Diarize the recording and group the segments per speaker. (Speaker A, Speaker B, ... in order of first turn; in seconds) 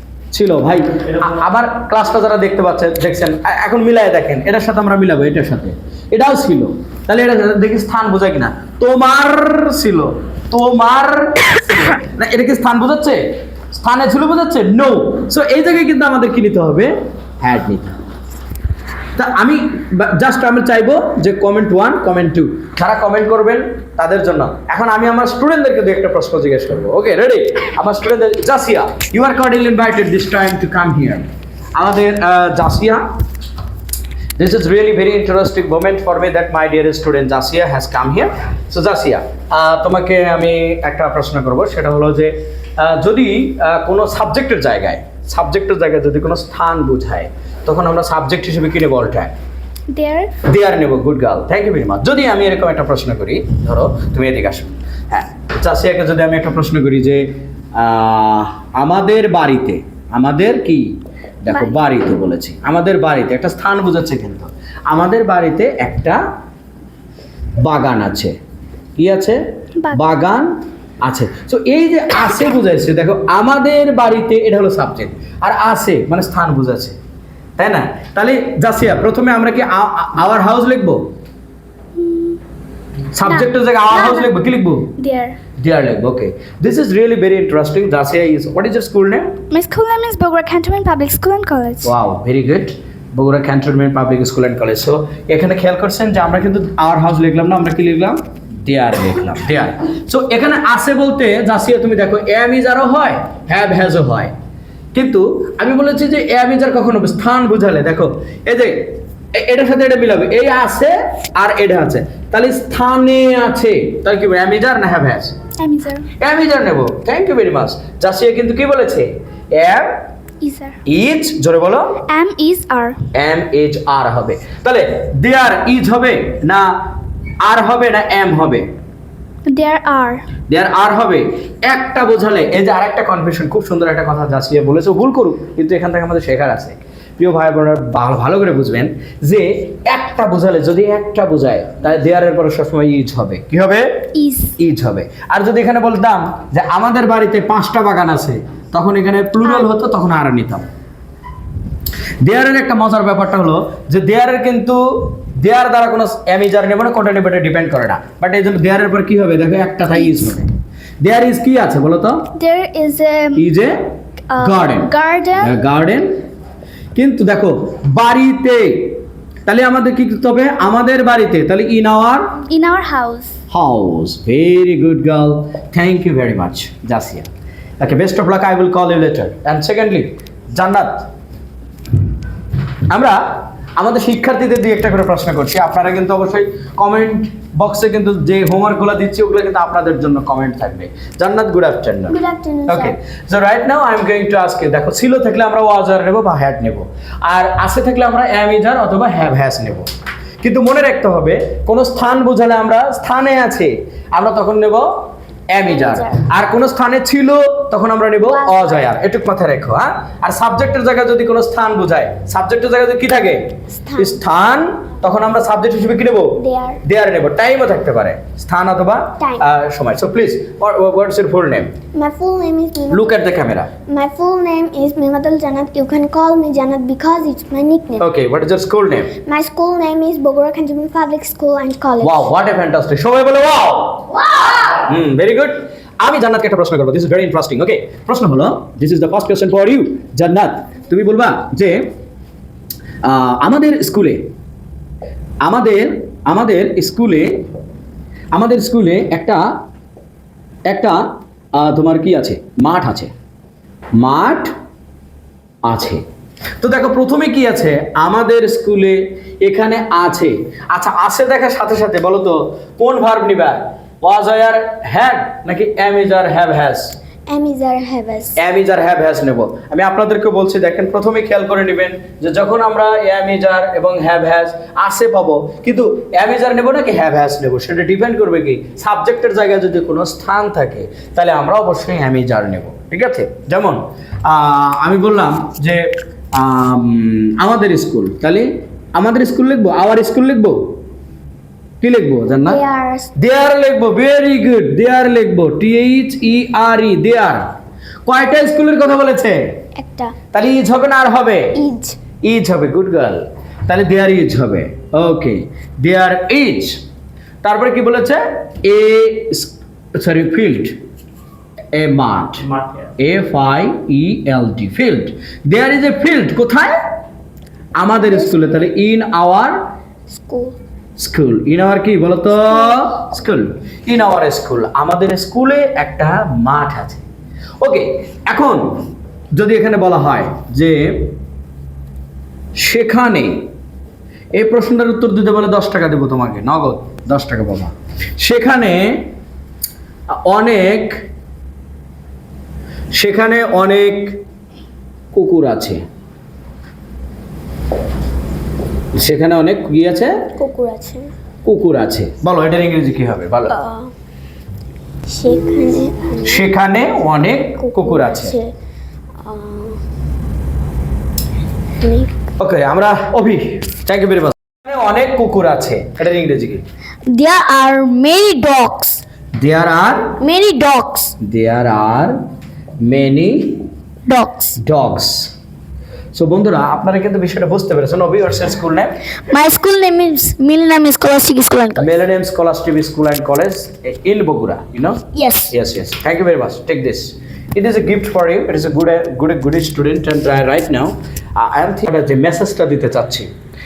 Speaker A: 0.3-18.0, 19.1-33.1, 34.4-49.3, 50.4-66.2, 67.6-68.3, 69.0-77.0, 77.6-81.0, 83.1-84.9, 85.6-89.4, 91.8-104.3, 104.9-115.3, 116.2-120.0, 120.8-122.0, 123.1-126.7, 127.4-128.7, 130.5-144.1, 144.6-150.7, 152.2-160.5, 161.0-162.3, 163.3-166.2, 166.9-172.3, 173.5-177.3, 177.8-181.1, 182.9-199.9, 200.4-221.7, 222.9-223.7, 228.0-229.1, 232.0-234.1, 234.7-241.9, 243.0-244.3, 245.4-247.4, 248.3-249.6, 250.7-253.1, 254.0-254.5, 255.7-256.0, 256.6-266.9, 268.4-290.7, 291.8-292.6, 293.1-297.4, 298.1-299.5, 300.3-301.6, 302.2-306.8, 307.4-310.8, 311.7-316.8, 317.8-319.6, 321.0-327.0, 327.6-331.1, 332.6-333.5, 334.4-339.1, 340.1-341.0, 342.9-344.2, 345.1-345.8, 348.9-350.1, 351.4-353.6, 356.2-358.3, 362.4-366.6, 369.4-370.1, 371.2-372.2, 372.8-373.6, 374.6-375.3, 376.1-378.9, 381.8-393.3
Speaker B: 49.9-50.3, 82.0-82.4, 83.3-84.3, 85.0-85.4, 89.5-91.9, 115.6-116.1, 120.4-120.8, 122.1-123.1, 129.5-130.3, 144.1-144.5, 162.3-163.4, 164.3-165.6, 172.5-173.3
Speaker C: 192.1-192.9, 205.8-206.1, 208.3-208.8, 213.7-214.2, 216.4-216.8, 219.2-219.4, 221.9-223.2, 223.9-228.1, 229.2-232.2, 267.3-268.4, 292.4-293.1, 299.8-300.1, 301.5-302.0, 320.1-320.5, 350.4-351.1, 353.5-353.9, 355.1-356.4, 357.6-358.5, 359.2-359.8, 361.8-362.1, 368.3-368.9, 370.2-371.1, 379.3-381.5, 385.2-385.4